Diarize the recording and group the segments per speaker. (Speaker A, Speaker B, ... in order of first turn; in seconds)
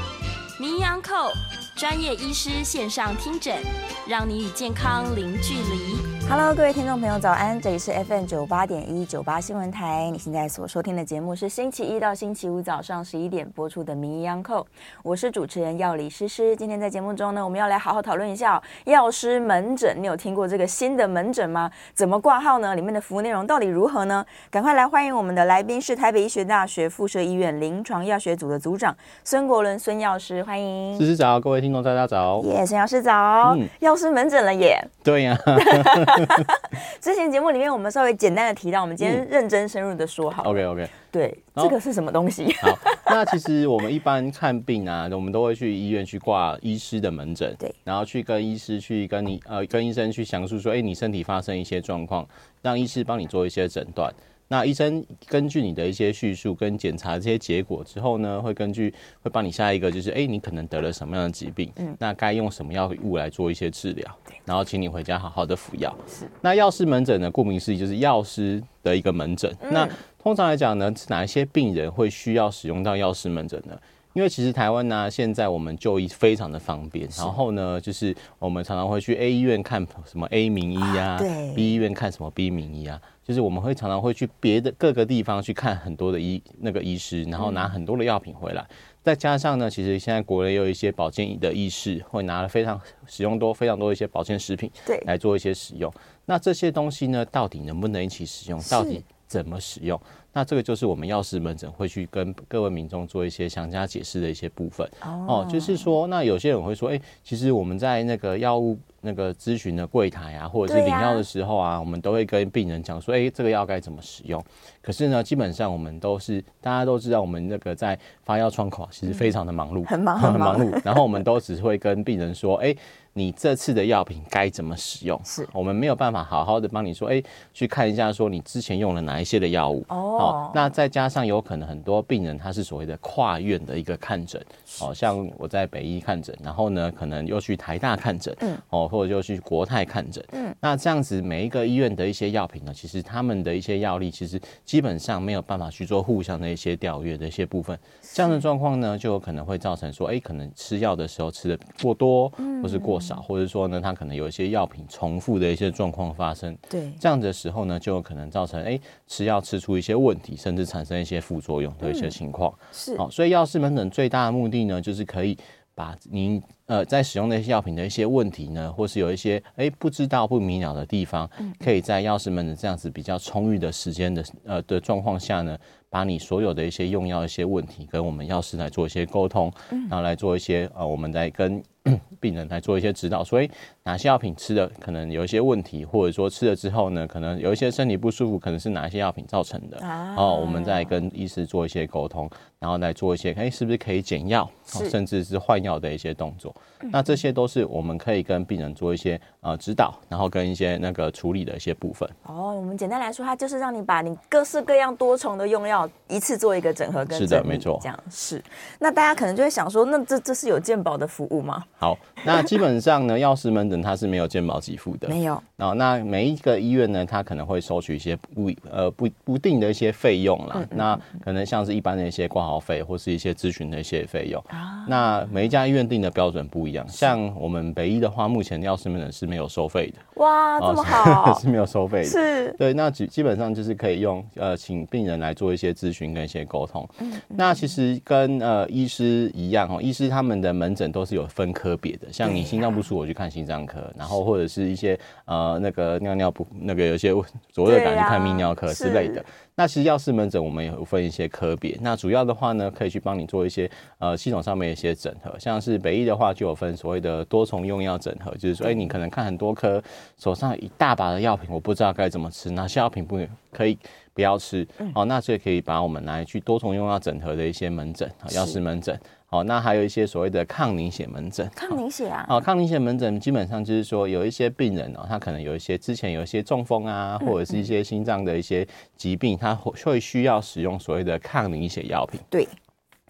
Speaker A: 0.6-6.1
Speaker B: 6.3-31.1, 32.4-34.9, 35.6-43.3, 69.6-70.0, 80.8-81.8, 87.4-87.7, 98.6-99.0, 105.0-105.9, 110.7-111.2, 119.9-121.2, 129.9-130.7, 148.1-148.4, 152.4-153.2, 156.7-157.0, 161.8-162.1, 162.7-163.0, 171.4-171.7, 189.8-190.9, 194.7-194.9, 202.2-211.7, 215.1-215.4, 220.5-221.2, 224.5-225.3, 230.2-231.4, 232.0-232.6, 237.0-237.7, 242.2-242.7, 247.7-249.2, 258.6-258.9, 268.3-268.6, 271.6-272.4, 277.2-277.6
Speaker C: 30.9-32.5, 33.4-33.7, 35.0-36.5, 39.0-39.2, 40.4-41.0, 42.6-202.2, 207.1-207.9, 211.8-230.0, 230.6-282.2